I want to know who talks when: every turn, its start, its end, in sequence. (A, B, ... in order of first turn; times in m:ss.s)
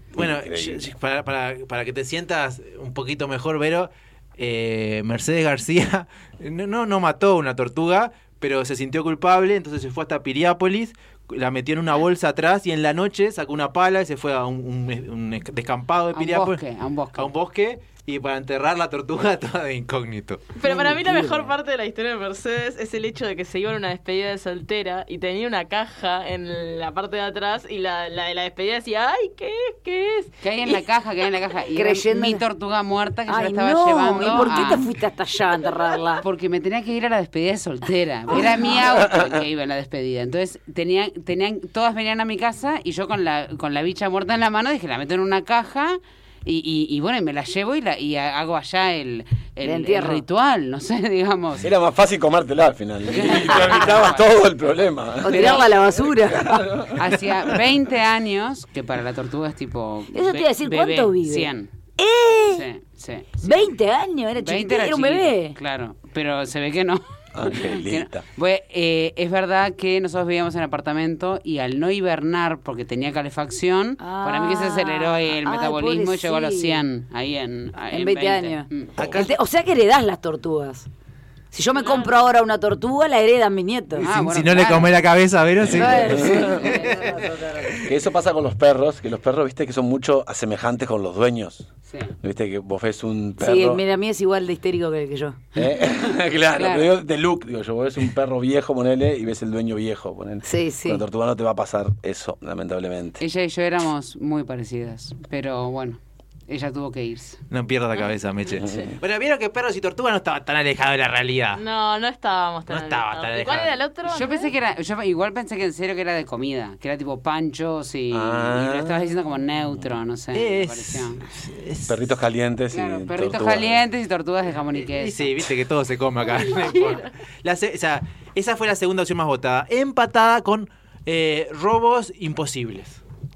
0:00.2-0:00.9 A
0:00.2-0:16.6 B
0:16.2-0:17.3 C
0:17.2-0:21.5 B
0:20.6-0:30.9 D
0:30.4-0:34.8 C
0:31.8-0:32.4 E
0:33.3-0:36.2 E
0:36.2-0:51.7 C
0:49.6-0:50.2 E
0:51.6-0:55.6 A
0:53.1-0:54.3 C
0:53.5-0:53.9 E
0:55.2-0:56.7 E
0:55.3-0:55.6 C
0:56.4-0:57.1 A
0:57.0-1:01.7 C
1:00.1-1:02.7 E
1:02.5-1:03.7 C
1:03.4-1:05.6 E
1:04.4-1:18.9 C
1:07.3-1:08.2 A
1:14.0-1:16.8 E
1:17.9-1:20.9 E
1:19.0-1:19.3 B
1:21.5-1:24.1 E
1:21.8-1:22.1 D
1:24.0-1:24.9 C
1:24.0-1:27.0 B
1:25.7-1:27.9 E
1:26.2-1:26.6 A
1:26.4-1:26.7 C
1:27.8-1:31.7 A
1:31.9-1:32.2 C
1:32.2-1:33.8 A
1:33.4-1:35.4 E
1:35.6-1:43.2 A
1:36.6-1:36.9 C
1:40.4-1:41.0 E
1:43.2-1:47.4 C
1:47.5-1:51.6 B
1:51.6-1:54.5 D
1:52.7-1:53.7 B
1:54.1-2:01.2 C
1:58.1-1:59.0 A
2:00.3-2:02.1 B
2:01.9-2:03.8 A
2:02.7-2:05.3 C
2:04.9-2:13.0 B
2:06.5-2:07.0 D